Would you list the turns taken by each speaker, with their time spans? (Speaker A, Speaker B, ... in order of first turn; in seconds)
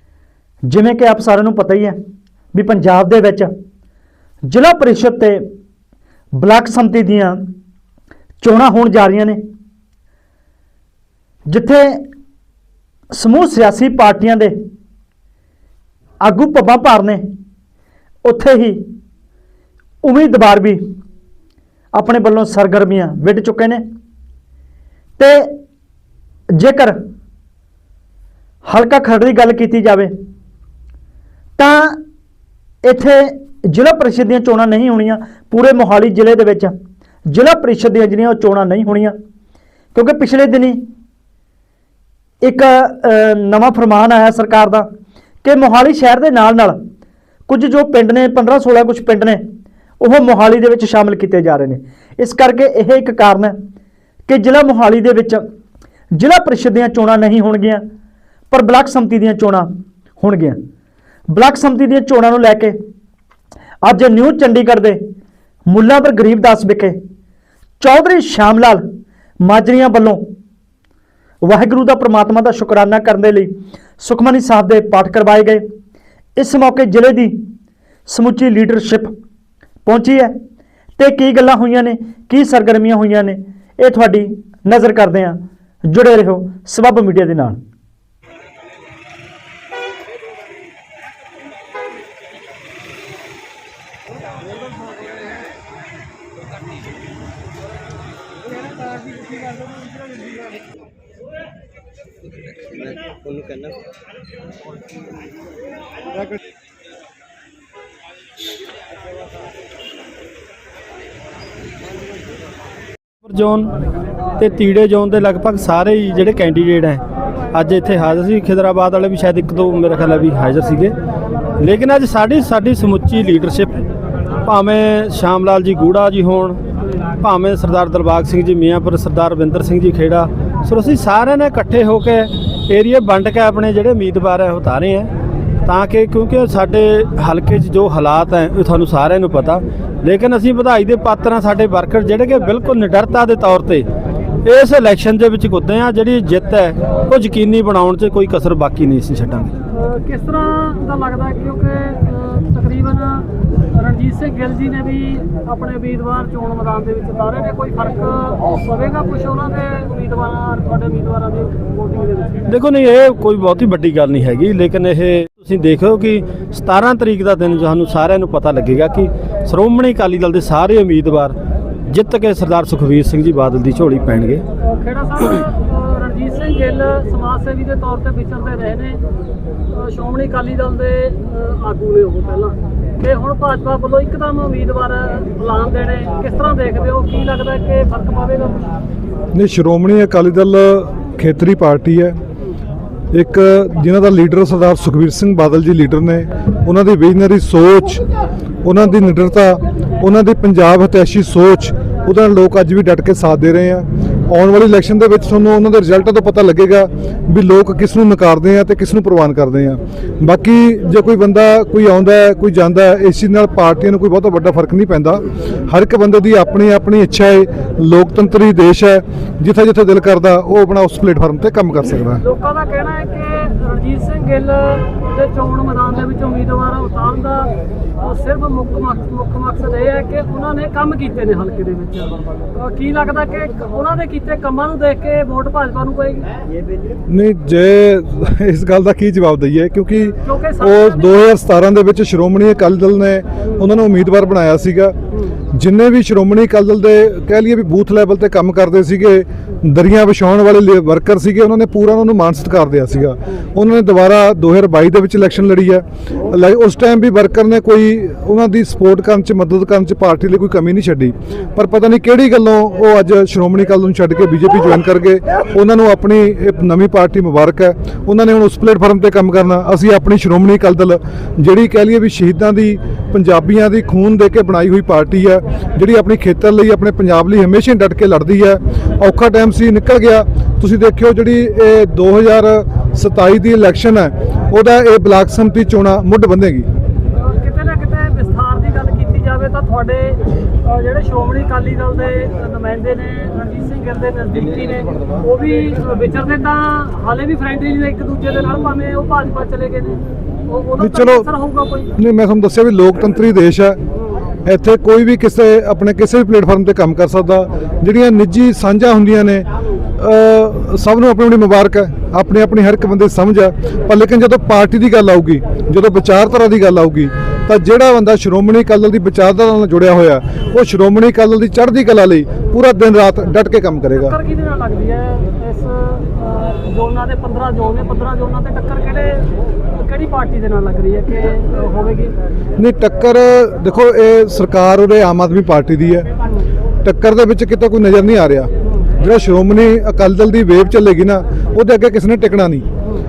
Speaker A: 0.7-2.0, 2.5-3.5, 4.5-5.4, 6.3-7.5, 8.4-9.4, 11.5-12.1, 13.1-14.6, 16.2-17.2, 18.2-18.8, 20.0-20.8, 21.9-23.8, 25.2-25.5, 26.6-27.0, 28.6-30.1, 31.6-32.0, 32.8-36.7, 37.3-39.1, 39.9-40.8, 42.4-44.9, 45.4-46.8, 47.5-49.4, 50.0-53.6, 54.3-55.4, 56.2-57.8, 58.5-59.7, 60.2-60.6, 61.3-62.8, 63.8-65.0, 65.7-67.0, 67.8-68.8, 69.4-70.3, 71.4-75.6, 76.4-77.4, 78.1-79.1, 79.8-80.3, 81.0-85.4, 85.9-87.6
Speaker B: 113.2-113.7, 114.4-121.0, 121.6-123.8, 124.4-126.6, 127.2-135.1, 135.6-143.8, 144.4-149.5, 162.5-171.3, 171.9-174.4
Speaker C: 149.7-162.4, 174.6-179.0, 179.7-188.7, 222.2-236.3, 240.2-241.2, 287.1-301.9, 323.9-332.1
Speaker D: 189.3-192.2, 193.1-198.0, 198.6-222.2, 237.1-244.9, 245.5-286.7, 300.8-301.3, 301.9-303.8, 304.4-309.4, 310.0-324.2, 332.6-336.1, 336.8-342.6